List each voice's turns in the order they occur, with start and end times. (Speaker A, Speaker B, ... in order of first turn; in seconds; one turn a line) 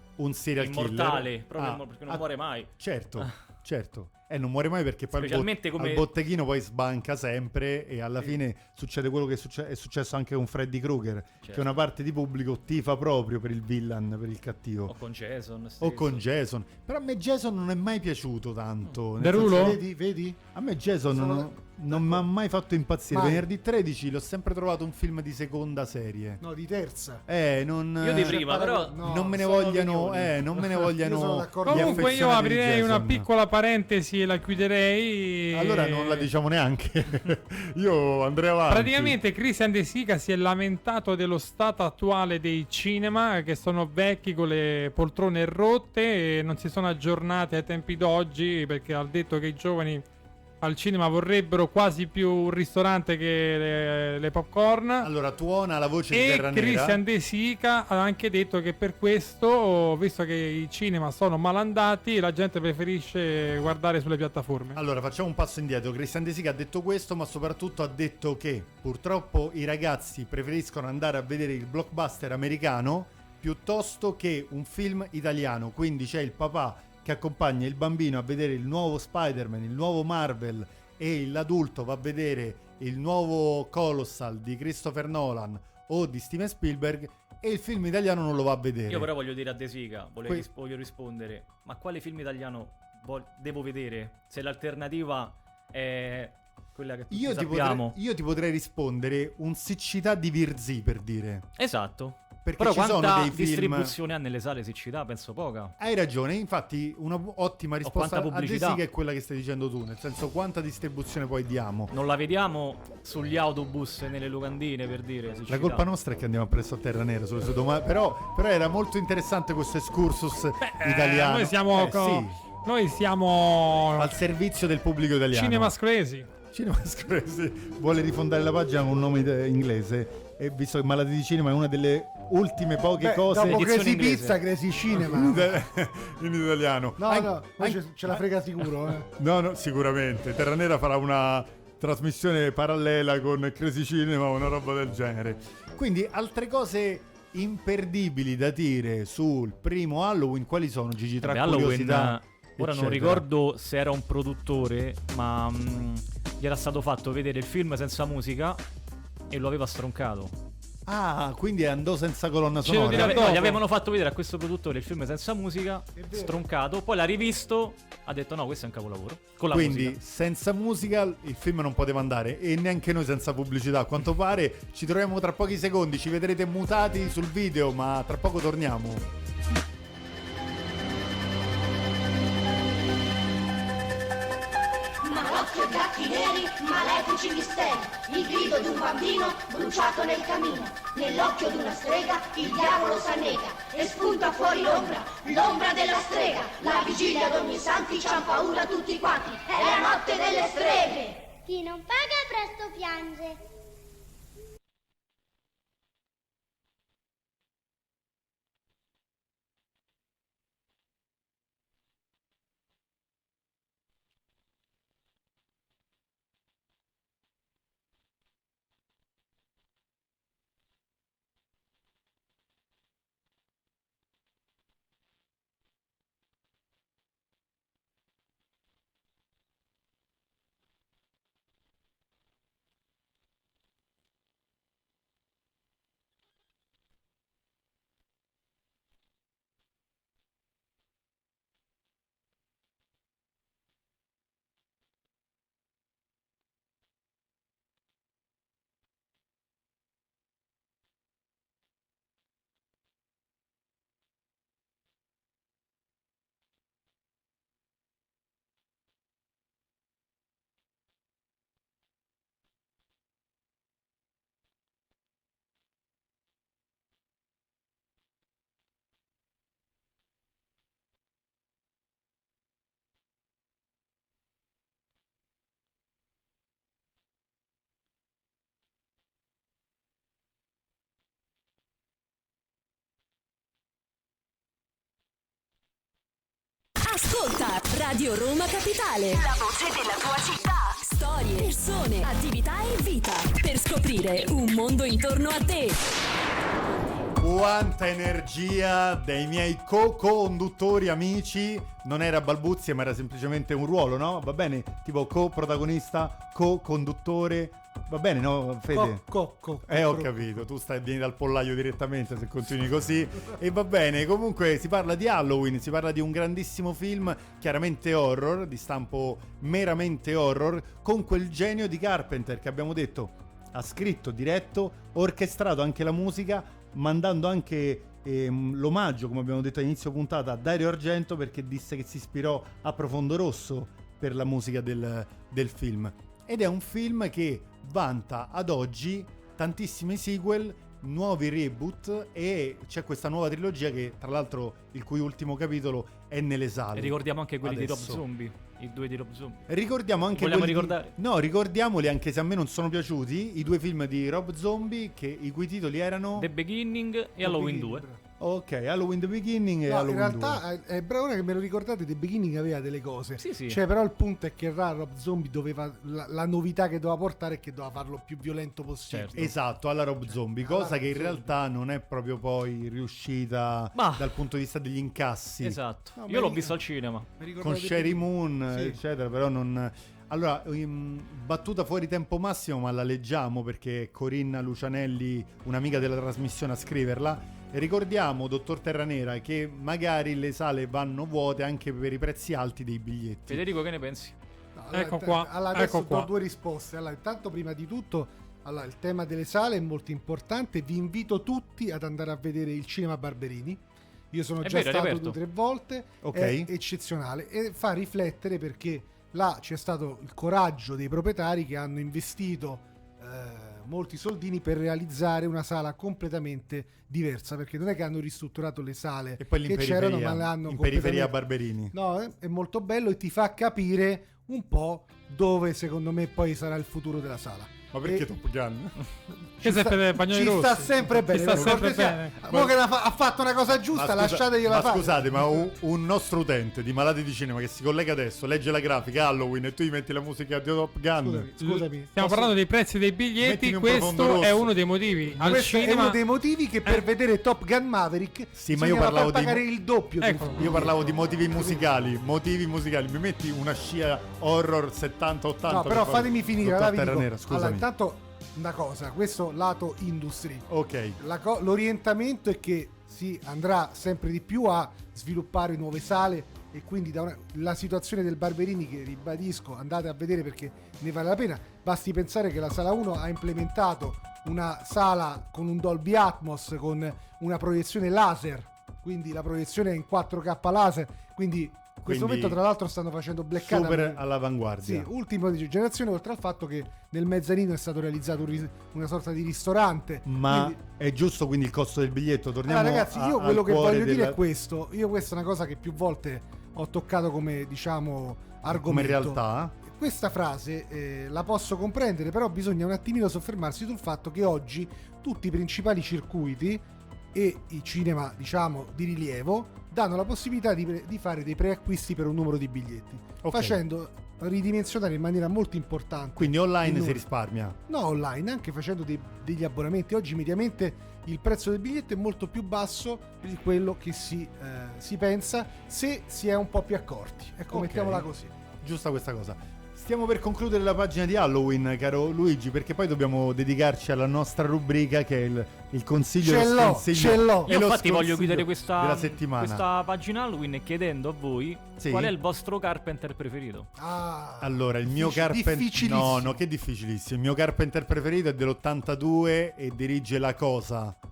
Speaker A: 0.2-14.9
Speaker B: 0.6-3.3
Speaker B: 5.2-6.1
Speaker B: 11.4-11.7
Speaker B: 14.9-16.2
Speaker A: 15.8-19.8
Speaker C: 19.2-19.8
Speaker D: 19.4-20.4
Speaker A: 20.5-26.4
Speaker D: 21.1-22.3
Speaker D: 23.1-23.5
Speaker D: 26.4-27.2
Speaker A: 27.2-28.4
Speaker B: 28.0-29.0
Speaker D: 28.1-32.2
Speaker A: 29.0-33.3
Speaker C: 31.6-36.3
Speaker A: 35.5-39.2
Speaker C: 38.7-50.0
Speaker C: 50.6-55.1
Speaker A: 55.0-57.0
Speaker C: 56.1-64.8
Speaker A: 64.7-89.1
Speaker B: 88.9-98.0
Speaker A: 97.1-101.5
Speaker B: 101.6-105.8
Speaker A: 102.4-103.9
Speaker A: 105.8-111.9
Speaker B: 107.8-108.8
Speaker B: 111.9-115.9
Speaker A: 115.5-122.4
Speaker C: 120.6-124.1
Speaker A: 124.0-125.7
Speaker C: 125.3-126.3
Speaker A: 126.5-133.7
Speaker D: 133.0-135.6
Speaker B: 133.3-134.4
Speaker A: 134.9-153.2
Speaker D: 137.0-139.1
Speaker B: 151.2-158.6
Speaker B: 159.3-160.3
Speaker A: 160.8-163.6
Speaker C: 162.6-163.6
Speaker B: 162.8-170.0
Speaker D: 165.9-166.4
Speaker A: 169.5-179.0
Speaker E: 185.0-201.3
Speaker F: 201.4-203.4
Speaker G: 286.8-295.8
Speaker A: 297.2-309.1
Speaker D: 308.7-310.4
Speaker A: 309.6-348.0
Speaker B: 346.8-349.5
Speaker A: 349.5-356.3
Speaker B: 350.1-350.9
Speaker B: 356.1-357.8
Speaker D: 357.2-358.0
Speaker A: 358.2-360.4
Speaker D: 359.6-369.4
Speaker B: 363.2-363.6
Speaker B: 368.9-369.2
Speaker A: 369.1-375.6
Speaker D: 370.0-371.4
Speaker B: 373.7-374.1
Speaker B: 375.4-377.1
Speaker D: 375.9-376.6
Speaker D: 377.2-378.8
Speaker A: 377.4-393.4
Speaker B: 393.3-394.1
Speaker D: 394.6-421.2
Speaker C: 394.7-396.1
Speaker B: 404.4-405.2
Speaker A: 406.0-406.5
Speaker A: 419.2-421.7
Speaker D: 421.7-428.1
Speaker A: 427.7-428.8
Speaker D: 429.4-435.6
Speaker C: 429.4-432.2
Speaker A: 431.4-431.6
Speaker A: 432.2-432.5
Speaker A: 433.7-441.3
Speaker D: 440.9-442.3
Speaker C: 441.4-446.0
Speaker A: 443.2-444.5
Speaker A: 445.1-445.4
Speaker D: 445.2-451.7
Speaker A: 448.3-449.4
Speaker C: 450.0-450.4
Speaker A: 450.3-457.7
Speaker D: 455.4-484.1
Speaker A: 460.5-461.0
Speaker A: 481.8-482.4
Speaker A: 483.4-484.9
Speaker D: 484.6-490.6
Speaker A: 490.1-494.2
Speaker D: 492.4-517.0
Speaker A: 498.5-499.5
Speaker A: 513.2-513.6
Speaker A: 516.1-517.6
Speaker D: 517.7-528.3
Speaker A: 527.5-528.1
Speaker A: 528.6-539.6
Speaker D: 536.2-537.6
Speaker B: 537.5-543.7
Speaker A: 541.8-542.1
Speaker D: 543.8-546.4
Speaker A: 544.4-551.0